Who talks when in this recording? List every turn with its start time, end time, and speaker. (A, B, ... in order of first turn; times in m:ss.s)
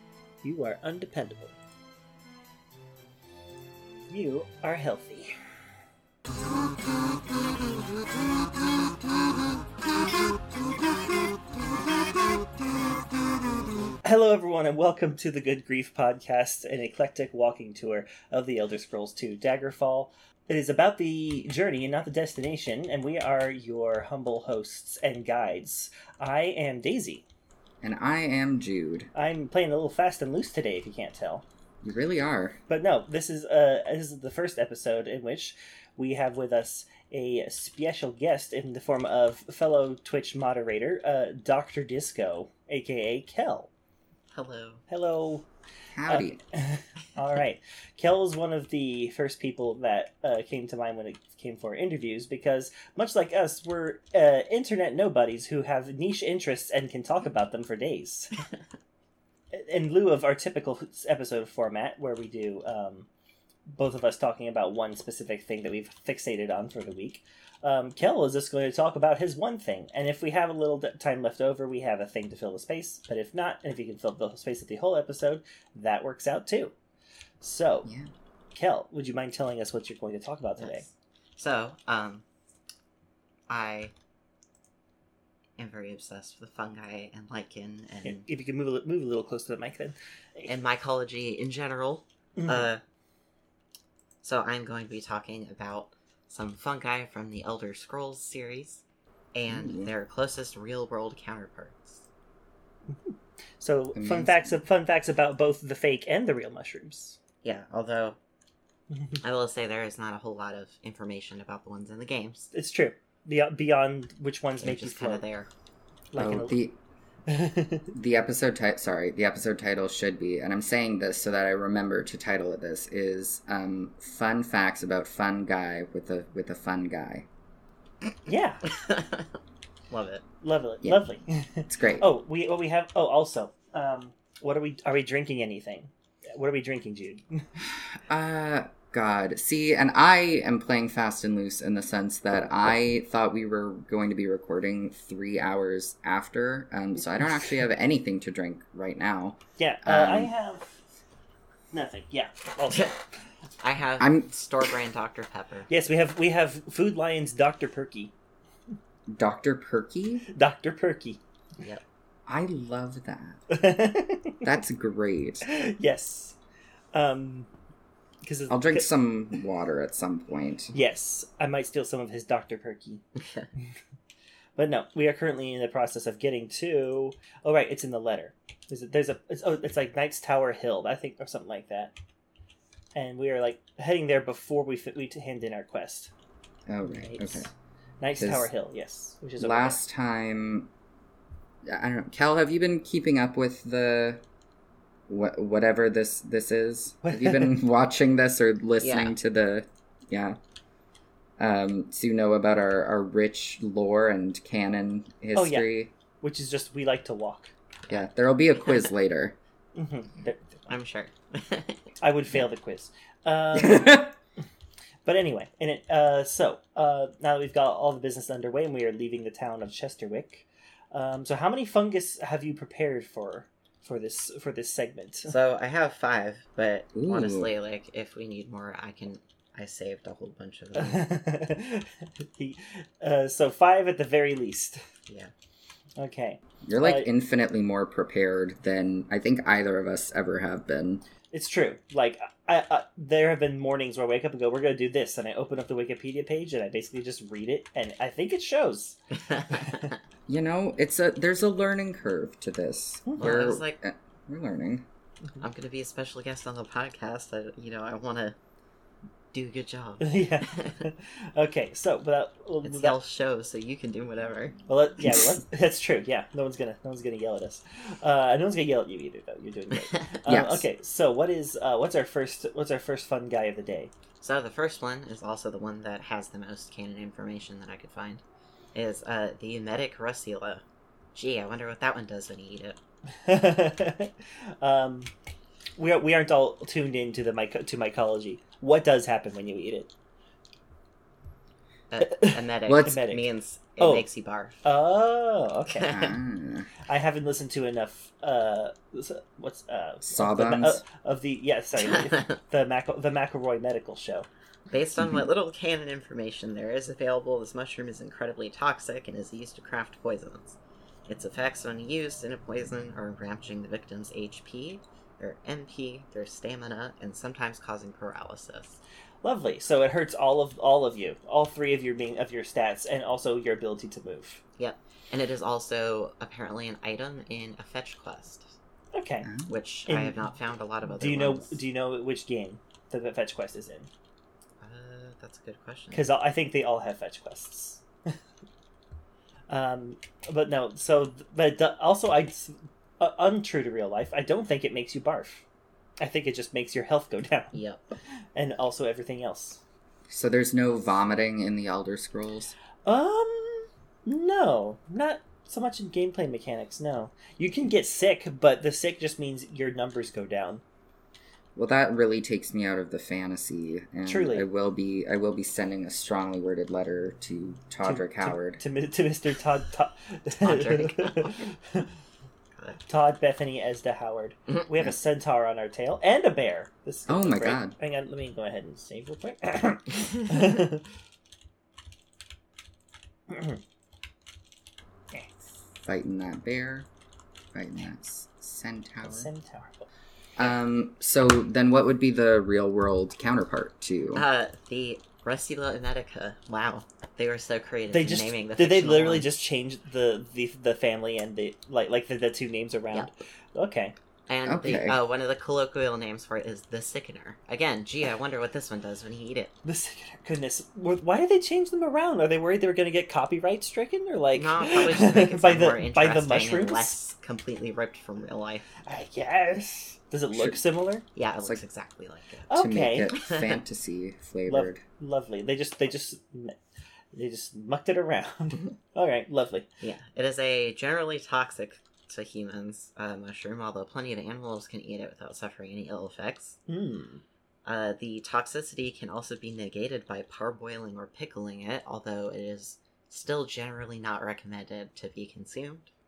0:00.4-0:01.6 A
0:04.1-0:05.3 A
0:14.0-0:27.2 A
0:27.8-0:29.1 B
0:29.1-0:31.4 A
0:31.8-0:32.6 B
0:32.7-0:43.7 A
0:44.3-0:44.8 C
0:44.9-0:45.5 A
0:45.9-0:46.4 B
0:46.1-0:58.5 A
0:59.5-1:03.1 A
1:03.7-1:16.7 A
1:17.4-1:17.9 A
1:17.8-1:18.1 B
1:18.5-1:20.8 A
1:20.6-1:22.2 C
1:23.5-1:23.9 C
1:25.6-1:28.2 C
1:28.0-1:30.5 A
1:30.5-1:32.8 C
1:32.4-1:32.7 A
1:34.2-1:38.8 C
1:39.3-1:42.1 C
1:39.5-1:39.9 B
1:42.9-1:47.2 A
1:43.9-1:44.6 B
1:47.4-1:48.2 C
1:49.2-1:52.5 C
1:52.5-1:55.2 A
1:54.6-1:55.5 C
1:56.1-1:56.5 A
1:56.2-1:56.8 B
1:57.3-1:57.9 A
1:57.9-2:07.3 B
2:08.2-2:08.6 A
2:08.7-2:09.3 C
2:09.9-2:10.2 C
2:10.4-2:17.5 A
2:11.7-2:12.1 B
2:17.6-2:30.3 B
2:29.6-2:30.8 A
2:31.7-2:33.0 A
2:33.6-2:35.7 C
2:34.0-2:34.3 B
2:35.7-2:38.1 A
2:39.1-2:40.2 B
2:40.3-2:41.2 A
2:42.3-2:43.4 B
2:43.5-2:44.4 A
2:44.4-2:45.4 B
2:45.4-2:46.4 A
2:46.9-2:47.5 A
2:48.2-2:48.9 A
2:48.5-2:50.7 B
2:50.7-2:53.0 A
2:53.2-2:53.5 C
2:54.6-3:01.9 A
3:02.9-3:06.1 A
3:06.7-3:07.5 B
3:06.9-3:09.8 A
3:08.2-3:08.5 B
3:09.4-3:10.7 B
3:11.7-3:14.2 B
3:15.1-3:20.4 B
3:17.0-3:17.6 A
3:18.8-3:19.1 C
3:21.4-3:25.9 B
3:25.3-3:25.7 A
3:26.2-3:27.5 A
3:27.8-3:28.9 C
3:27.9-3:29.4 B
3:29.8-3:30.7 A
3:30.7-3:31.9 C
3:32.0-3:34.1 A
3:33.5-3:34.1 B
3:35.0-3:45.3 A
3:45.2-3:51.1 C
3:46.9-3:47.5 B
3:50.7-3:54.8 A
3:56.0-3:57.1 A
3:56.6-4:01.0 B
4:01.3-4:09.0 A
4:09.1-4:10.0 C
4:09.5-4:09.8 A
4:10.3-4:14.8 B
4:13.0-4:13.3 A
4:13.2-4:13.8 C
4:15.4-4:18.4 C
4:19.3-4:20.8 C
4:20.0-4:23.0 A
4:22.6-4:24.5 C
4:24.7-4:33.9 A
4:29.8-4:30.2 C
4:30.2-4:30.7 B
4:34.2-4:38.2 C
4:38.7-4:40.6 C
4:41.1-4:42.8 C
4:43.2-4:45.1 A
4:45.8-4:49.9 A
4:51.9-4:54.6 C
4:52.0-4:53.3 A
4:52.6-4:53.0 B
4:53.8-4:54.1 A
4:54.6-4:56.0 A
4:55.8-4:56.1 C
4:55.9-4:56.7 B
4:56.8-5:04.3 A
5:00.0-5:00.8 B
5:01.8-5:02.4 C
5:04.7-5:18.8 C
5:05.0-5:05.3 B
5:19.2-5:24.4 A
5:24.6-5:28.5 C
5:28.9-5:29.3 A
5:29.2-5:29.5 B
5:29.5-5:31.6 C
5:29.9-5:30.2 A
5:30.9-5:33.9 A
5:34.6-5:36.1 C
5:35.9-5:38.1 A
5:39.5-5:45.4 A
5:46.0-5:47.6 A
5:47.5-5:47.8 C
5:48.1-5:49.6 A
5:50.1-5:52.5 B
5:52.8-6:00.6 A
6:01.6-6:08.6 B
6:04.0-6:04.5 A
6:07.8-6:11.9 A
6:10.4-6:11.5 C
6:12.8-6:20.9 A
6:17.1-6:17.7 B
6:23.3-6:23.6 A
6:25.1-6:25.4 A
6:25.8-6:26.9 B
6:27.5-6:29.3 B
6:29.0-6:29.9 A
6:30.4-6:34.2 B
6:34.1-6:39.3 C
6:37.9-6:43.9 A
6:44.3-6:49.5 C
6:44.4-6:45.0 B
6:49.6-6:56.9 A
6:54.3-6:58.7 C
6:58.8-7:01.0 A
7:00.3-7:00.6 B
7:01.1-7:02.5 C
7:02.5-7:03.1 A
7:02.5-7:04.8 B
7:03.1-7:03.6 C
7:04.5-7:06.6 A
7:07.1-7:09.7 A
7:09.8-7:16.6 C
7:16.7-7:17.2 A
7:17.6-7:25.9 C